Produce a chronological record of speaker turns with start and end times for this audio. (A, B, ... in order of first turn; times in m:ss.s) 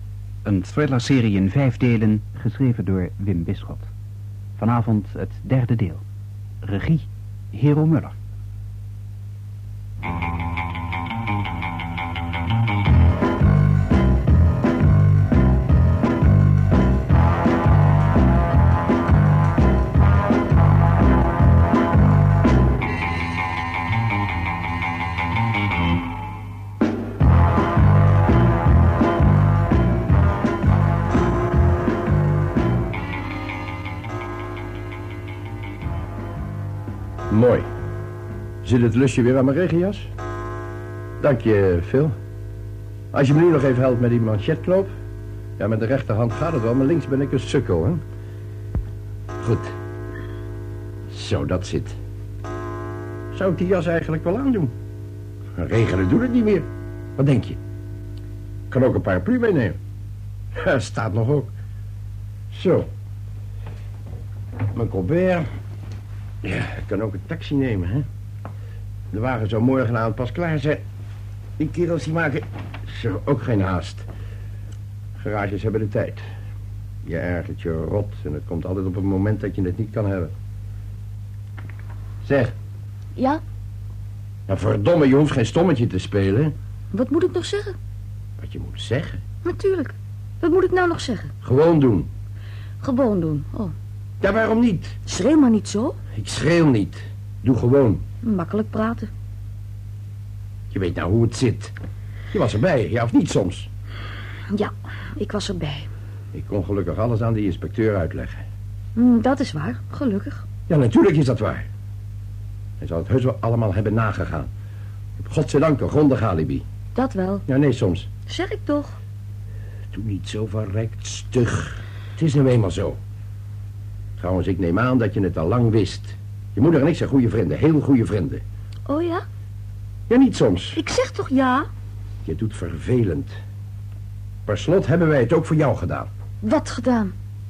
0:00.4-0:03.9 A
0:04.6-0:06.0 A
0:06.6-0:08.2 A
0:37.3-0:37.7 B
0:38.6-0:40.1 B
0:41.2-0:42.2 B
0:43.1-0:44.9 B
0:45.6-0:48.0 B
0:49.4-0:49.7 B
0:51.1-0:52.0 B
0:53.3-0:54.7 B
0:55.5-0:57.6 B
0:58.7-0:59.8 B
1:00.5-1:01.5 B
1:02.5-1:02.9 B
1:04.7-1:05.5 B
1:06.4-1:08.0 B
1:09.1-1:10.8 B
1:11.6-1:14.1 B
1:15.2-1:16.2 B
1:17.0-1:20.3 B
1:22.2-1:22.5 B
1:23.2-1:23.4 C
1:24.5-1:26.5 B
1:26.9-1:27.8 C
1:28.4-1:29.2 B
1:29.4-1:31.3 C
1:31.4-1:32.1 B
1:32.8-1:33.7 C
1:34.2-1:34.9 B
1:35.1-1:36.0 C
1:36.2-1:38.0 B
1:38.2-1:39.1 C
1:40.7-1:41.7 B
1:42.3-1:43.7 B
1:44.5-1:45.9 C
1:46.3-1:48.4 B
1:49.0-1:50.4 C
1:50.7-1:51.7 B
1:52.8-1:54.5 B
1:55.2-1:56.6 B
1:56.9-1:57.4 C
1:57.5-1:58.1 B
1:58.3-1:59.0 C
1:59.9-2:03.0 B
2:04.2-2:08.4 B
2:08.9-2:09.2 C
2:10.1-2:10.8 B
2:10.7-2:11.7 C
2:12.2-2:13.3 B
2:14.4-2:16.1 B
2:16.4-2:17.1 C